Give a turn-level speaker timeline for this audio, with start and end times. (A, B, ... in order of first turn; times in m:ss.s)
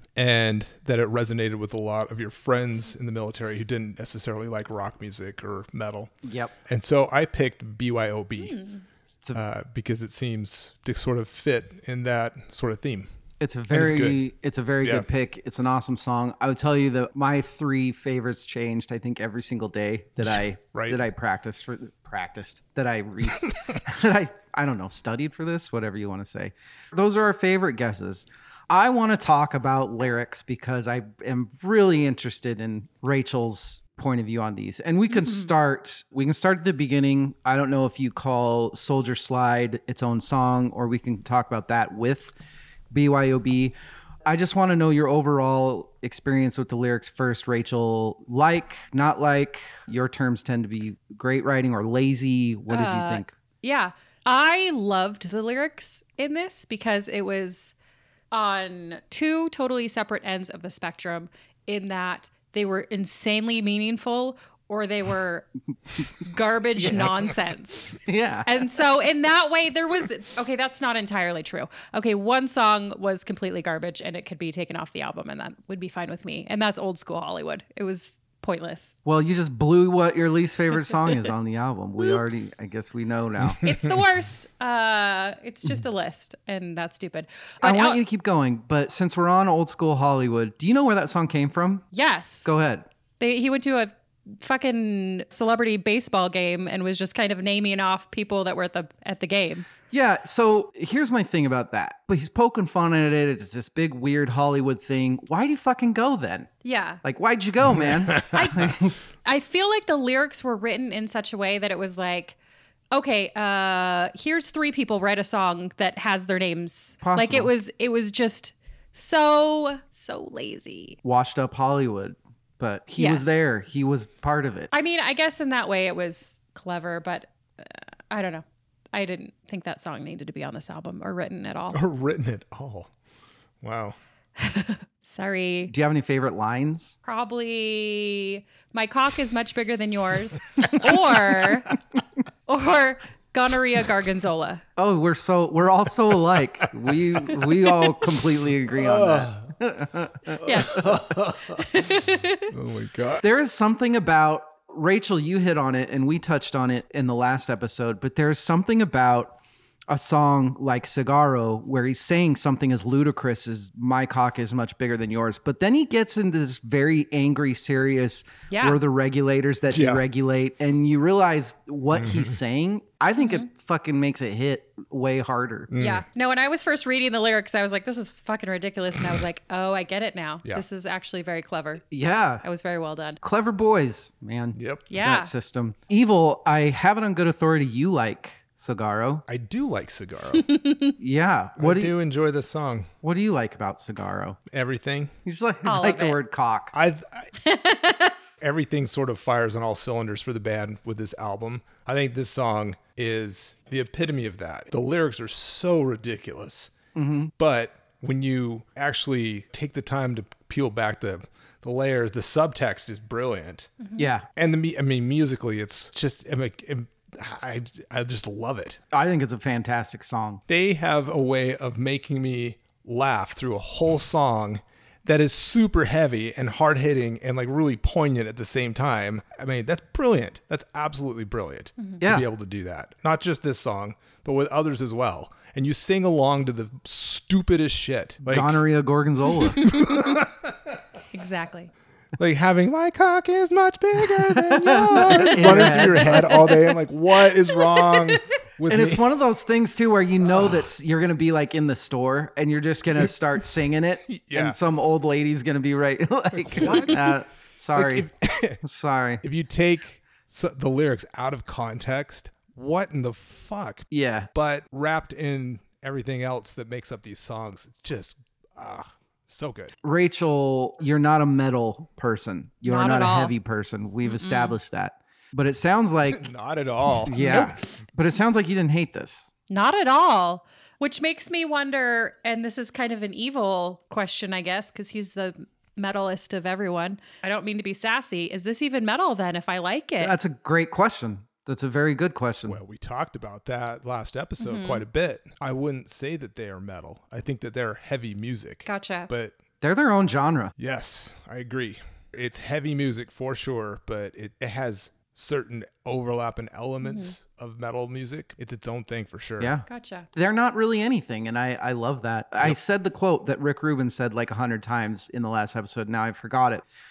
0:00.2-0:06.1 A
0:06.2-0:06.5 B
0:06.7-0:08.6 A
0:08.4-0:08.8 C
0:09.3-0:13.1 A
0:13.4-0:42.3 B
0:13.7-0:14.2 A
0:20.2-0:21.0 A
0:35.1-0:35.5 C
0:42.9-0:43.7 B
0:44.2-0:53.3 B
0:52.7-0:57.7 C
0:58.3-1:05.5 C
1:06.2-1:19.0 C
1:06.8-1:07.1 B
1:08.0-1:08.7 B
1:19.0-1:23.6 B
1:22.0-1:22.5 C
1:23.6-1:28.0 C
1:27.6-1:31.8 B
1:31.9-1:32.5 C
1:32.4-1:32.8 B
1:33.2-1:39.6 C
1:39.9-1:46.5 B
1:46.6-1:47.0 C
1:47.0-1:49.0 B
1:47.7-1:48.3 A
1:48.2-1:52.4 C
1:52.9-2:01.0 C
1:57.0-1:57.5 B
2:01.0-2:04.7 B
2:03.0-2:03.4 C
2:04.7-2:11.8 C
2:11.7-2:12.9 A
2:13.6-2:14.0 A
2:14.4-2:15.7 C
2:15.6-2:17.0 B
2:17.0-2:21.7 C
2:22.5-2:24.6 C
2:24.8-2:31.0 B
2:28.7-2:29.5 A
2:30.4-2:31.7 A
2:30.4-2:32.5 C
2:32.5-2:33.2 A
2:33.2-2:39.4 B
2:39.9-2:55.7 B
2:48.5-2:48.8 C
2:49.7-2:50.0 A
2:51.9-2:52.4 A
2:53.2-2:53.4 C
2:55.7-2:56.0 A
2:55.8-3:01.8 C
3:01.9-3:02.4 B
3:02.4-3:03.2 C
3:03.2-3:09.2 B
3:04.6-3:04.9 A
3:04.9-3:05.3 C
3:09.3-3:10.5 A
3:10.4-3:10.9 C
3:11.0-3:11.9 B
3:11.6-3:12.9 A
3:13.0-3:14.4 B
3:14.5-3:15.1 A
3:15.2-3:16.7 B
3:15.6-3:16.2 C
3:16.7-3:17.3 A
3:17.4-3:18.1 C
3:18.4-3:26.7 A
3:26.9-3:27.3 B
3:27.4-3:33.7 A
3:33.8-3:34.1 C
3:34.0-3:34.2 B
3:34.4-3:38.8 A
3:38.9-3:40.4 B
3:40.5-3:58.6 A
3:52.0-3:52.3 B
3:58.2-3:59.7 B
3:59.6-4:00.2 C
3:59.6-4:00.7 A
4:01.1-4:01.7 C
4:02.2-4:09.0 A
4:04.3-4:06.2 B
4:05.0-4:06.8 C
4:07.3-4:08.2 C
4:08.7-4:18.1 B
4:14.1-4:14.6 A
4:16.4-4:17.2 A
4:17.7-4:18.6 A
4:18.6-4:19.2 B
4:19.2-4:29.7 A
4:23.9-4:24.3 B
4:29.8-4:36.2 B
4:32.6-4:33.3 C
4:34.0-4:34.6 C
4:36.1-4:37.5 A
4:37.0-4:39.3 B
4:37.2-4:37.5 C
4:39.5-4:50.1 C
4:50.0-4:52.6 B
4:52.5-4:59.4 A
4:54.4-4:54.8 C
4:58.6-4:59.1 C
4:59.6-5:00.5 B
5:00.6-5:09.5 A
5:06.8-5:07.1 C
5:09.4-5:16.6 B
5:09.7-5:10.1 C